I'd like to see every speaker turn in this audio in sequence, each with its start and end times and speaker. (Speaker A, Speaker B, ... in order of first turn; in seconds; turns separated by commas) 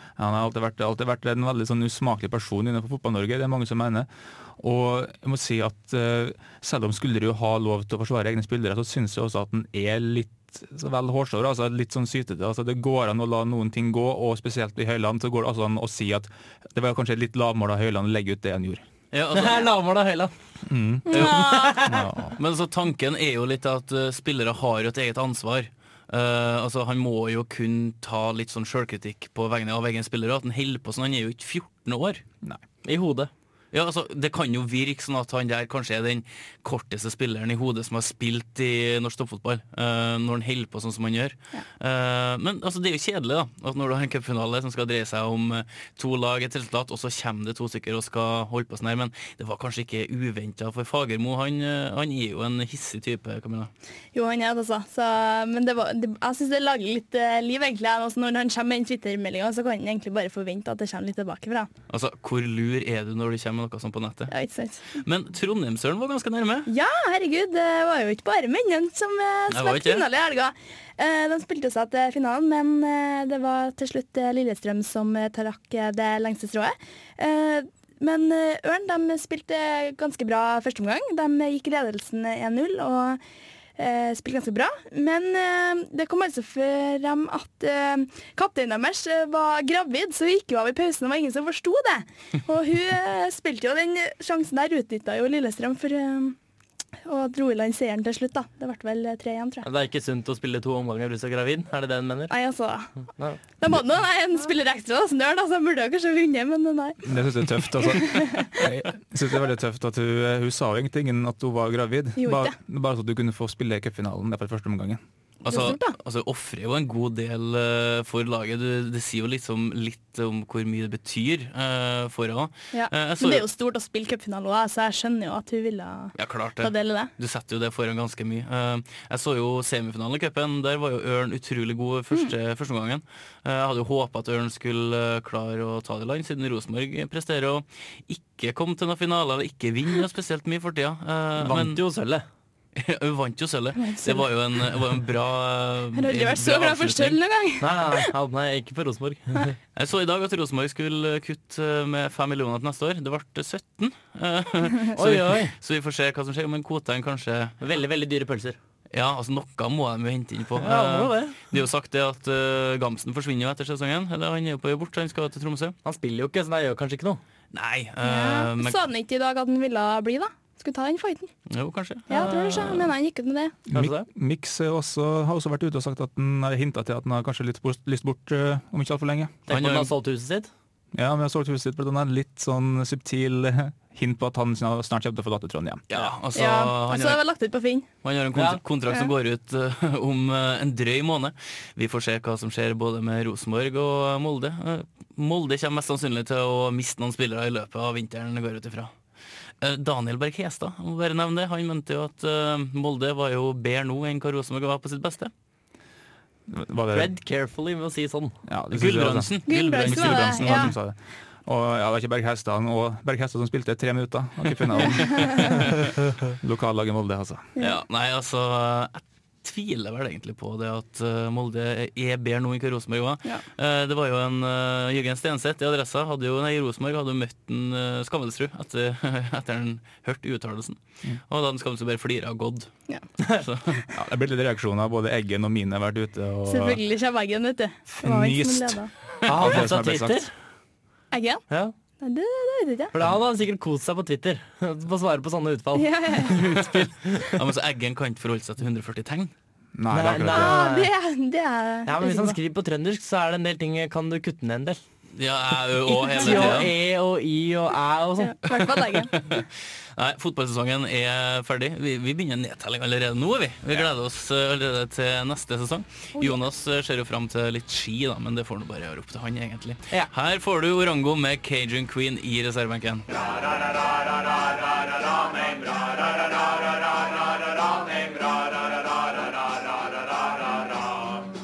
Speaker A: 0.2-18.8, Speaker B: 19.1-19.7, Speaker C: 19.3-20.3, Speaker A: 20.6-22.4, Speaker D: 21.1-21.8, Speaker B: 21.1-21.4, Speaker C: 21.3-22.1, Speaker B: 22.4-32.2, Speaker C: 32.8-33.3, Speaker B: 33.7-53.7, Speaker D: 54.1-61.7, Speaker B: 61.9-64.3, Speaker D: 64.3-64.9, Speaker B: 65.0-66.7, Speaker D: 66.7-83.2, Speaker B: 69.5-70.0, Speaker D: 83.8-96.3, Speaker D: 97.0-99.7, Speaker C: 99.6-102.3, Speaker D: 102.3-102.9, Speaker D: 103.6-108.6, Speaker A: 107.0-115.0, Speaker D: 112.2-112.5, Speaker B: 115.4-123.5, Speaker D: 115.5-115.9, Speaker D: 122.7-127.1, Speaker B: 126.2-141.8, Speaker C: 141.4-142.2, Speaker B: 142.7-147.2, Speaker D: 143.8-144.3, Speaker D: 145.9-147.9, Speaker C: 147.6-149.5, Speaker B: 149.8-157.6, Speaker C: 155.0-155.5, Speaker C: 157.6-158.6, Speaker B: 158.9-165.8, Speaker C: 160.6-161.4, Speaker C: 165.8-167.2, Speaker B: 167.5-168.8, Speaker D: 168.0-171.3, Speaker B: 171.5-172.9, Speaker D: 172.1-173.6, Speaker A: 173.7-179.4, Speaker C: 173.7-174.1, Speaker C: 179.5-180.5, Speaker B: 179.5-179.9, Speaker A: 180.9-185.8, Speaker B: 185.9-187.2, Speaker D: 186.3-187.9, Speaker B: 188.0-198.9, Speaker B: 199.6-205.3, Speaker A: 206.5-207.1, Speaker C: 206.9-208.4, Speaker A: 208.5-217.5, Speaker B: 208.7-210.7, Speaker D: 209.5-210.7, Speaker B: 214.5-215.8, Speaker B: 217.6-232.7, Speaker B: 233.4-233.8, Speaker A: 233.9-236.8, Speaker D: 236.4-238.9, Speaker A: 237.9-240.2, Speaker C: 239.2-240.3, Speaker D: 241.1-241.4, Speaker D: 242.0-242.9, Speaker C: 242.9-247.4, Speaker D: 245.7-246.4, Speaker B: 246.4-249.3, Speaker A: 249.7-250.6, Speaker C: 249.9-250.9, Speaker D: 250.2-252.4, Speaker C: 251.8-254.8, Speaker B: 255.2-256.7, Speaker D: 255.9-256.6, Speaker C: 256.1-258.4, Speaker D: 258.2-259.2, Speaker B: 258.5-273.1, Speaker A: 273.2-280.9